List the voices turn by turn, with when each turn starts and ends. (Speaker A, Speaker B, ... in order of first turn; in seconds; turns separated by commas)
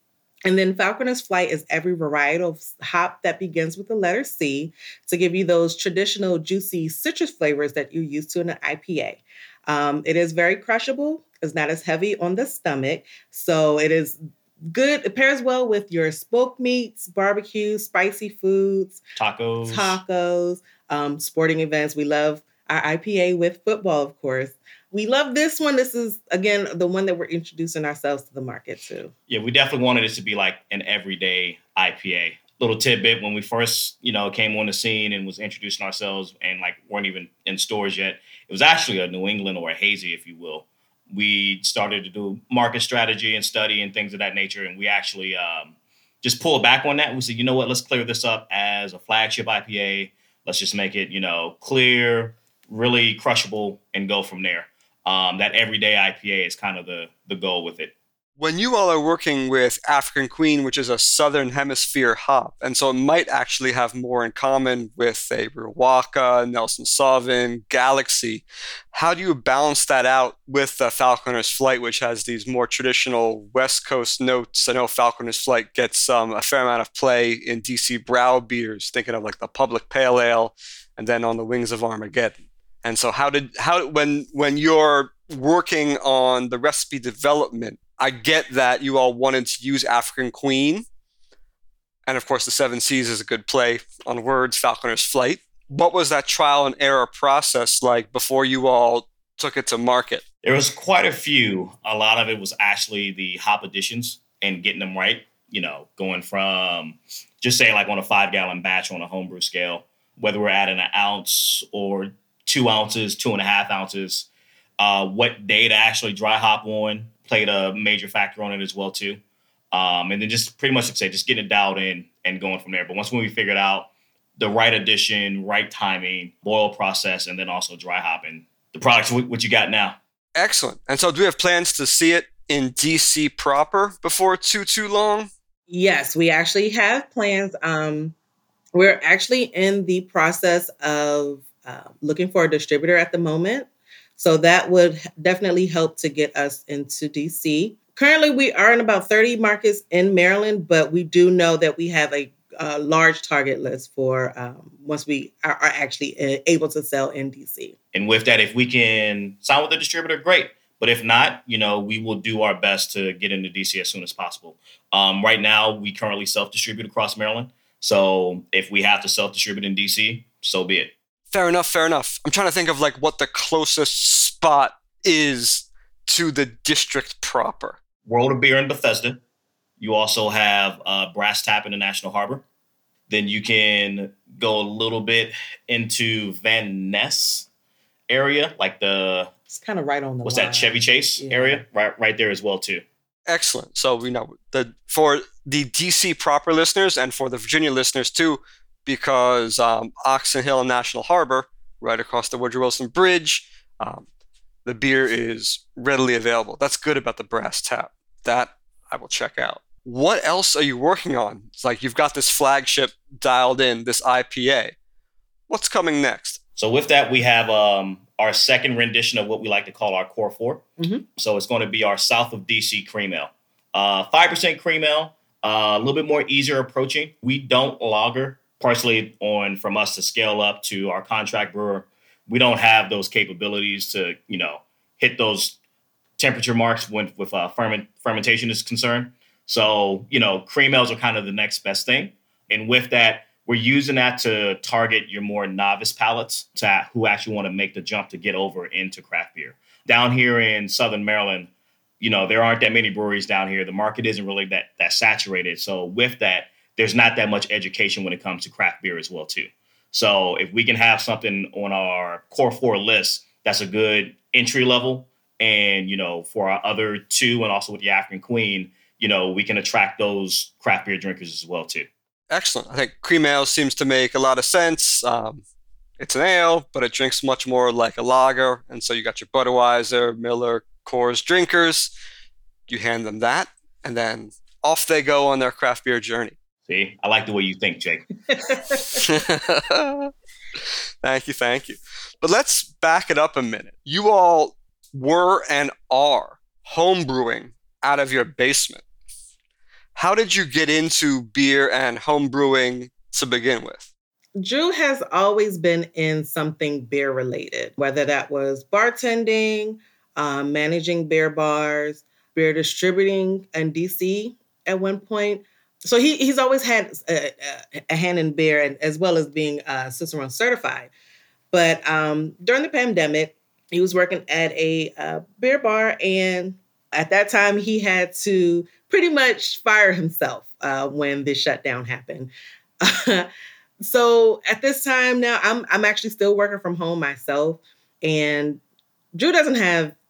Speaker A: 0.4-19.0, Speaker B: 19.2-20.0, Speaker A: 19.7-29.1, Speaker B: 29.3-57.9, Speaker C: 58.4-90.8, Speaker C: 92.1-100.2, Speaker B: 100.4-119.2, Speaker B: 119.7-130.0, Speaker C: 130.3-135.3, Speaker A: 135.7-138.1, Speaker A: 138.7-157.7, Speaker B: 157.9-170.9, Speaker C: 171.3-177.8, Speaker B: 178.1-179.2, Speaker B: 179.8-182.4, Speaker B: 183.1-187.5, Speaker B: 188.1-189.3, Speaker A: 189.5-191.6, Speaker B: 190.2-192.8, Speaker C: 193.3-204.1, Speaker C: 204.6-214.7, Speaker C: 215.5-216.4, Speaker B: 216.6-220.6, Speaker A: 220.8-221.0, Speaker B: 221.2-235.6, Speaker B: 236.2-271.9, Speaker C: 272.3-275.4, Speaker C: 276.0-281.9, Speaker C: 282.7-286.3, Speaker B: 286.7-288.6, Speaker C: 288.9-290.1, Speaker C: 291.0-298.8, Speaker C: 299.9-303.9, Speaker A: 304.4-320.9, Speaker A: 321.5-332.3, Speaker A: 332.8-338.6, Speaker A: 339.1-339.9